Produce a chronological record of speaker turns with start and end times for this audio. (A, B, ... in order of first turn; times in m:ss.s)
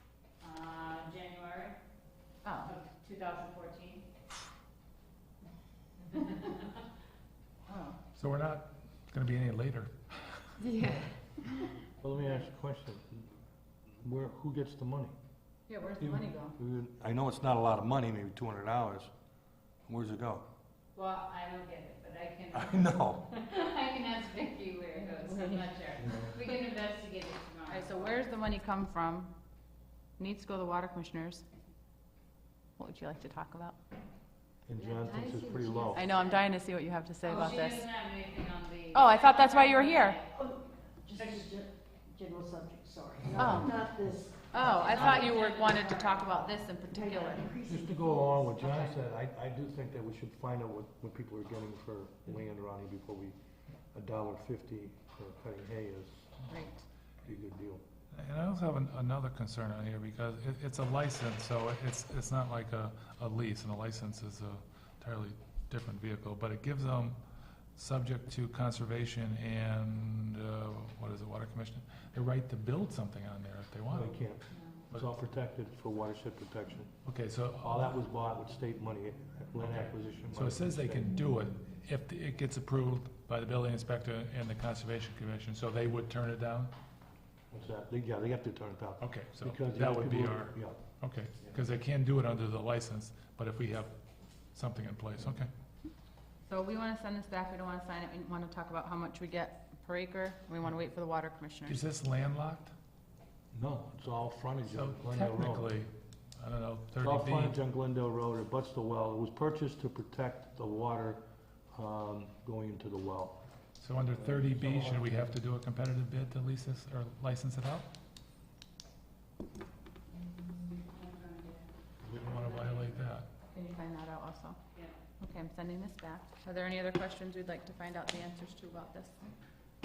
0:00.4-0:01.8 A
0:02.4-0:02.7 B
0:02.6-0:04.0 A
0:06.1-0:06.6 A
0:07.7-0:08.0 B
0:08.2-0:10.8 C
0:10.8-0:11.1 D
0:12.0-0:13.4 E
0:13.9-0:15.1 E
0:15.7-0:16.6 B
0:16.0-0:19.1 E
0:19.9-0:20.4 E
0:21.0-0:28.2 A
0:22.5-0:23.3 E
0:26.0-0:26.3 E
0:27.7-0:29.3 B
0:30.2-0:31.4 B
0:32.8-0:33.8 B
0:34.7-0:36.1 E
0:34.8-0:36.5 A
0:35.3-0:35.8 D
0:35.9-0:37.8 B
0:37.2-0:40.4 A
0:38.9-0:40.2 B
0:40.3-0:45.1 D
0:41.1-0:41.6 A
0:43.4-0:43.9 B
0:44.5-0:47.5 B
0:44.6-0:46.4 A
0:46.9-0:48.6 D
0:47.6-0:53.4 E
0:48.6-0:49.0 B
0:53.9-0:56.3 E
0:56.5-0:56.9 B
0:57.2-0:57.8 E
0:58.1-1:07.2 C
1:07.8-1:14.3 C
1:13.9-1:16.9 E
1:14.5-1:14.8 A
1:17.0-1:18.0 C
1:17.6-1:21.1 E
1:19.7-1:26.7 C
1:27.5-1:30.8 E
1:29.0-1:33.9 C
1:34.5-1:35.5 C
1:36.5-1:41.8 B
1:41.7-1:42.7 C
1:43.5-1:45.7 E
1:44.7-1:47.6 C
1:47.0-1:51.2 E
1:51.7-1:53.4 E
1:53.8-1:57.9 C
1:54.1-1:55.3 E
2:00.3-2:01.7 A
2:02.0-2:03.3 C
2:02.3-2:03.0 A
2:03.5-2:04.6 B
2:05.2-2:09.2 B